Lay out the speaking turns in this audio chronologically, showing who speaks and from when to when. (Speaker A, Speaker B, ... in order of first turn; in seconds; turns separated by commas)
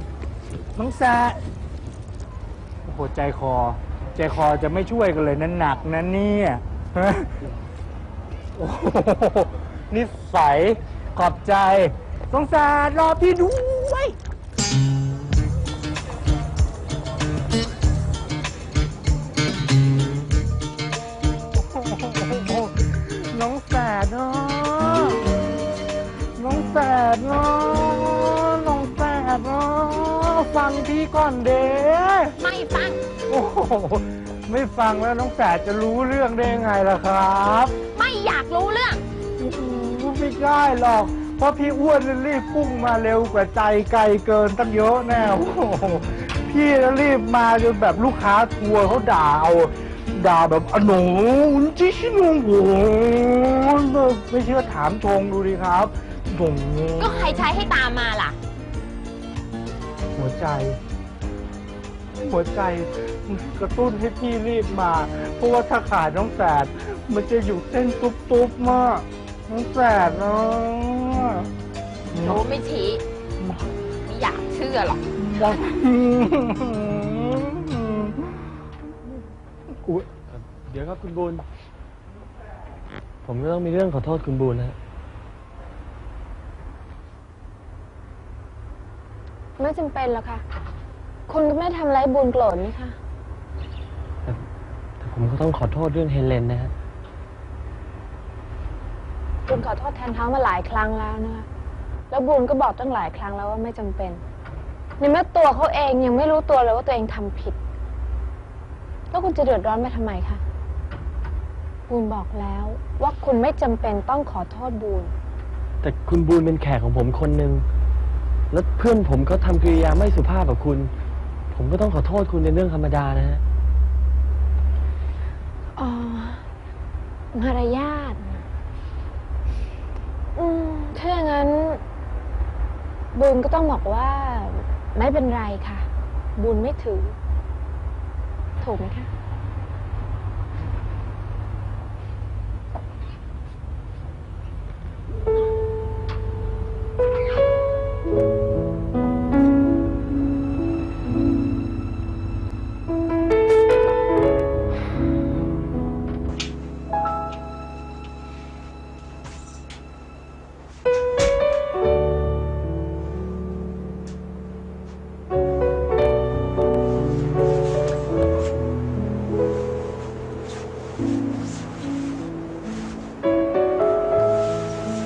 Speaker A: 0.8-1.4, Speaker A: 2.9-7.3, Speaker A: 8.6-14.1, Speaker A: 21.3-25.2, Speaker A: 26.4-32.4, Speaker B: 32.4-33.0, Speaker A: 33.3-37.7, Speaker B: 37.9-39.0, Speaker A: 39.4-57.4, Speaker B: 57.0-58.4, Speaker A: 60.1-60.8, Speaker A: 62.2-71.5, Speaker A: 72.1-72.5, Speaker B: 72.2-73.0, Speaker B: 74.0-75.0, Speaker A: 75.2-78.5, Speaker C: 79.8-81.4, Speaker C: 83.2-84.8, Speaker D: 89.6-90.4, Speaker D: 91.3-93.0, Speaker C: 95.0-96.7, Speaker D: 99.5-101.5, Speaker D: 102.1-104.2, Speaker D: 105.0-107.6, Speaker D: 109.1-110.4, Speaker D: 111.9-115.1, Speaker C: 115.8-117.6, Speaker C: 118.5-120.9, Speaker C: 121.5-123.4, Speaker D: 125.8-126.4, Speaker D: 127.3-128.3, Speaker D: 130.3-131.8, Speaker D: 133.1-137.1, Speaker D: 138.6-139.1